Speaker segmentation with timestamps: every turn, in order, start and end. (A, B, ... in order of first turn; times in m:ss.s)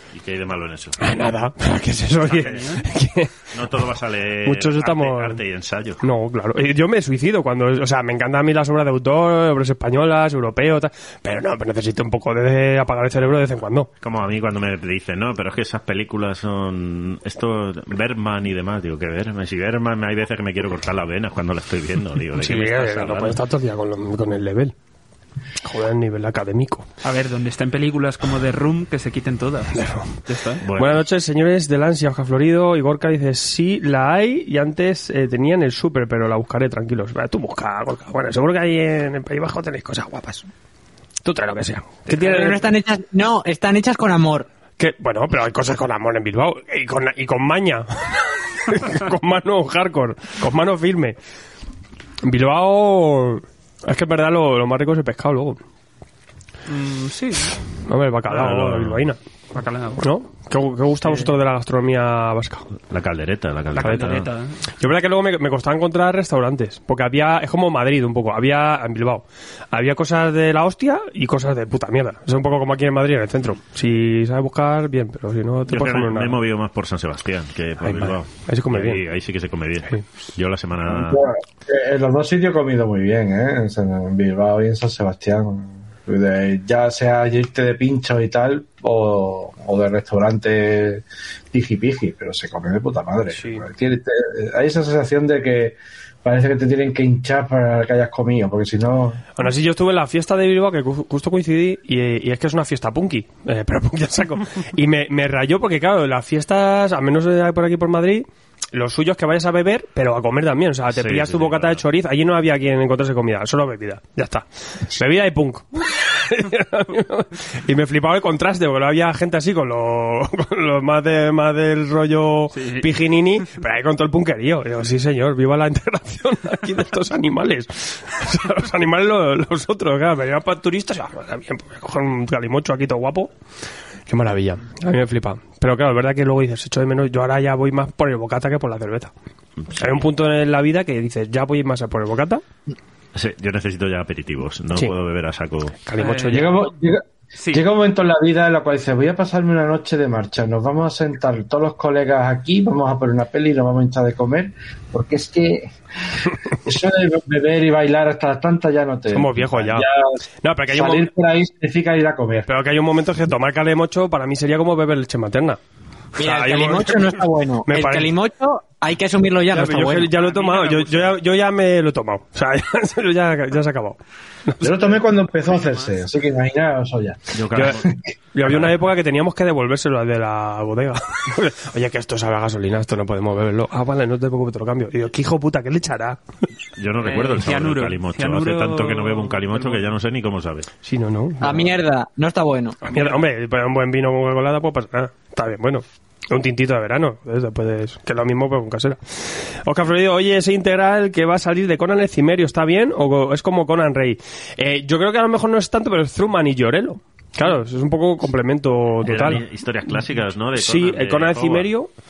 0:00.1-0:01.1 A
0:01.0-0:03.9 B
0:02.2-0:02.7 A
0:02.2-0:02.8 C
0:03.5-0:06.0 A
0:04.4-0:05.4 B
0:06.0-0:13.9 B
0:14.0-0:23.4 A
0:22.3-0:24.7 B
0:25.6-0:26.9 B
0:27.0-0:30.7 C
0:29.7-0:30.2 B
0:30.6-0:31.0 A
0:30.7-0:40.5 B
0:41.2-0:42.8 B
0:42.1-0:44.5 D
0:44.8-0:51.2 B
0:52.2-0:55.6 B
0:56.7-0:57.6 C
0:57.8-0:59.2 B
0:58.2-0:59.0 A
0:59.5-1:00.0 C
1:00.0-1:02.7 B
1:02.9-1:04.3 A
1:03.7-1:04.6 C
1:03.8-1:04.2 B
1:04.8-1:16.5 B
1:15.7-1:21.2 A
1:17.8-1:19.1 B
1:20.9-1:39.2 E
1:33.3-1:33.6 B
1:39.3-2:13.3 B
1:50.9-1:51.8 A
2:02.5-2:02.9 C
2:14.1-2:19.1 B
2:19.7-2:20.0 A
2:19.7-2:22.4 B
2:23.1-2:25.7 A
2:25.8-2:26.6 B
2:26.0-2:26.4 C
2:26.3-2:35.7 E
2:27.4-2:27.6 C
2:36.6-2:40.2 E
2:39.1-2:39.8 B
2:40.4-2:41.1 B
2:40.7-2:42.5 E
2:42.5-2:45.6 B
2:46.2-2:48.2 B
2:46.2-2:50.2 D
2:49.5-2:55.0 B
2:50.2-2:51.1 C
2:54.6-2:58.0 E
2:55.2-2:56.0 C
2:57.3-2:57.8 A
2:57.5-2:57.8 B
2:58.3-3:06.4 B
2:58.4-2:58.7 A
3:06.8-3:10.7 A
3:07.0-3:09.9 C
3:10.8-3:11.8 B
3:11.4-3:12.8 D
3:12.8-3:31.9 B
3:29.0-3:31.7 A